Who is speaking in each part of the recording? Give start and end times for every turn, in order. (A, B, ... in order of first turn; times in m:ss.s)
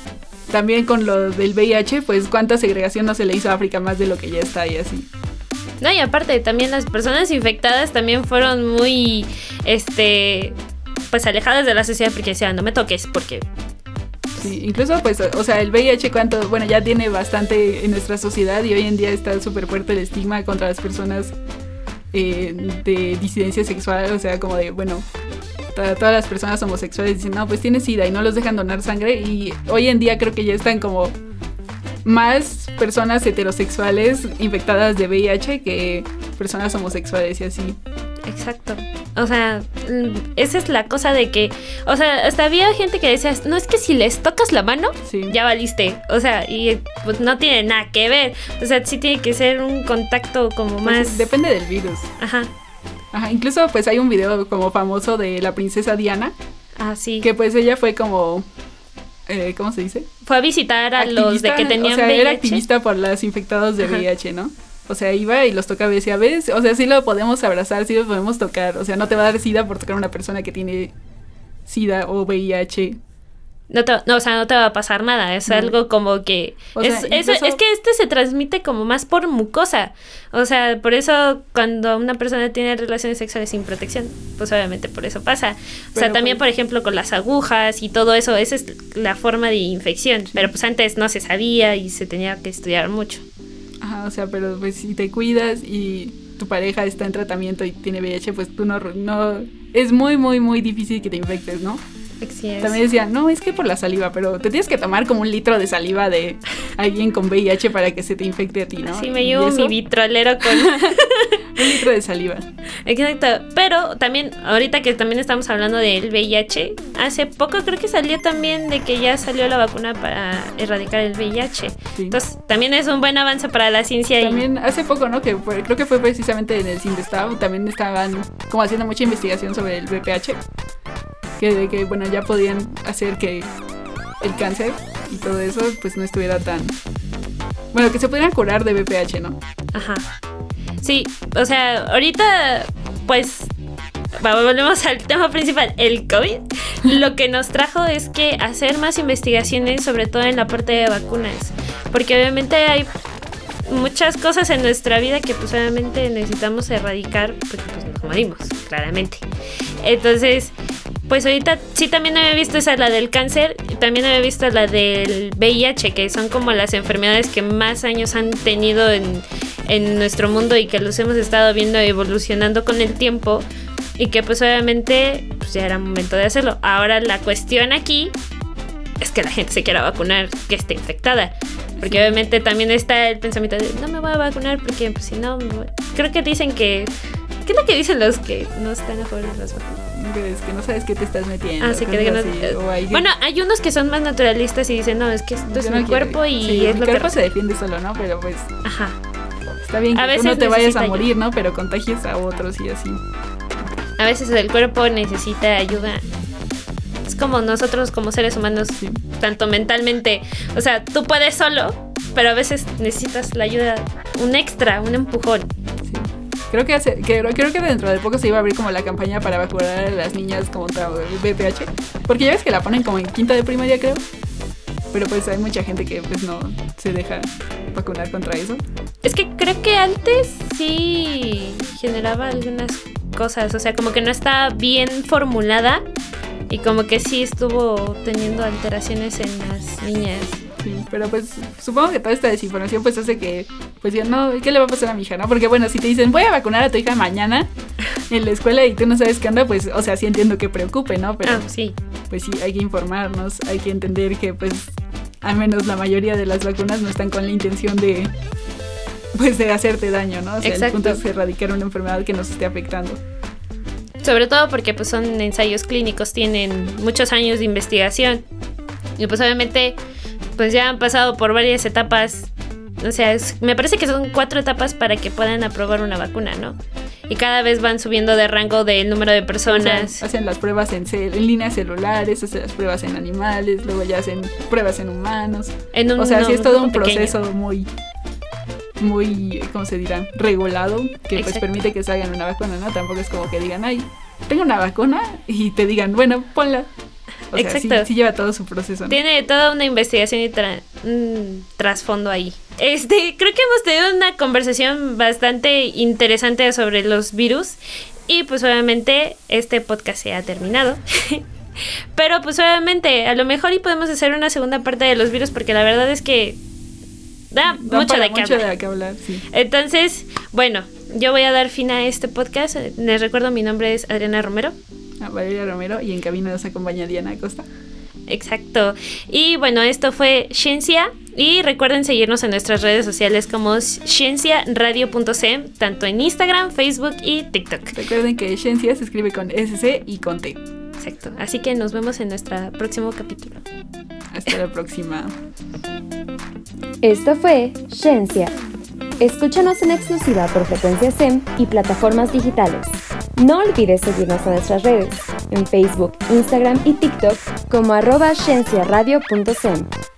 0:00.5-0:05.1 A
0:05.8-0:10.6 B
0:11.1-0:13.4 B
0:14.4-0:21.3 A
0:22.1-0:25.1 A
0:25.7-0:31.2 A
0:32.0-0:37.8 A
0:38.3-0:51.3 B
0:45.0-0:45.4 A
0:50.8-0:52.1 A
0:52.2-0:52.5 B
0:53.1-0:56.3 A
0:56.8-0:57.3 B
0:57.2-0:58.4 A
0:59.3-1:00.1 A
1:00.2-1:02.6 B
1:01.0-1:10.9 A
1:11.7-1:13.0 A
1:13.7-1:33.2 B
1:15.5-1:15.7 A
1:16.7-1:17.6 A
1:25.9-1:26.4 A
1:33.8-1:41.8 A
1:42.2-1:42.8 B
1:42.6-1:49.8 A
1:48.8-1:51.8 B
1:50.4-1:51.0 A
1:51.5-1:52.4 A
1:52.8-2:04.4 B
2:04.2-2:10.4 A
2:11.4-2:13.5 A
2:14.2-2:16.8 A
2:17.7-2:19.4 A
2:19.7-2:20.1 B
2:20.8-2:23.5 B
2:24.2-2:32.9 B
2:33.7-2:39.2 B
2:39.8-2:40.5 B
2:41.1-2:53.4 B
2:54.0-2:58.1 B
2:59.0-3:06.9 B
3:01.8-3:02.2 A
3:07.4-3:09.8 B
3:09.9-3:13.1 A
3:11.6-3:17.3 B
3:15.4-3:18.5 A
3:18.6-3:19.0 B
3:19.6-3:23.0 A
3:19.9-3:21.0 B
3:24.0-3:26.0 B
3:27.1-3:35.5 B
3:35.8-3:44.0 A
3:44.9-3:48.6 A
3:49.0-3:55.8 B
3:56.5-4:00.4 B
4:00.6-4:07.5 A
4:08.1-4:11.4 A
4:11.2-4:11.7 B
4:12.1-4:18.1 A
4:19.1-4:23.0 A
4:20.4-4:21.0 B
4:24.0-4:28.2 B
4:29.0-4:29.8 B
4:30.4-4:36.6 B
4:37.1-4:40.0 B
4:39.4-4:47.7 A
4:45.7-4:47.2 B
4:48.8-4:56.7 A
4:51.1-4:51.6 B
4:57.3-4:59.0 A
4:57.3-4:57.9 B
4:58.9-5:16.4 B
5:17.3-5:18.5 B
5:17.5-5:19.2 A
5:19.3-5:24.6 B
5:25.0-5:27.4 A
5:28.1-5:37.8 B
5:37.7-5:40.4 A
5:40.8-5:43.4 B
5:44.1-5:45.1 A
5:46.8-5:48.4 C
5:49.0-5:59.7 C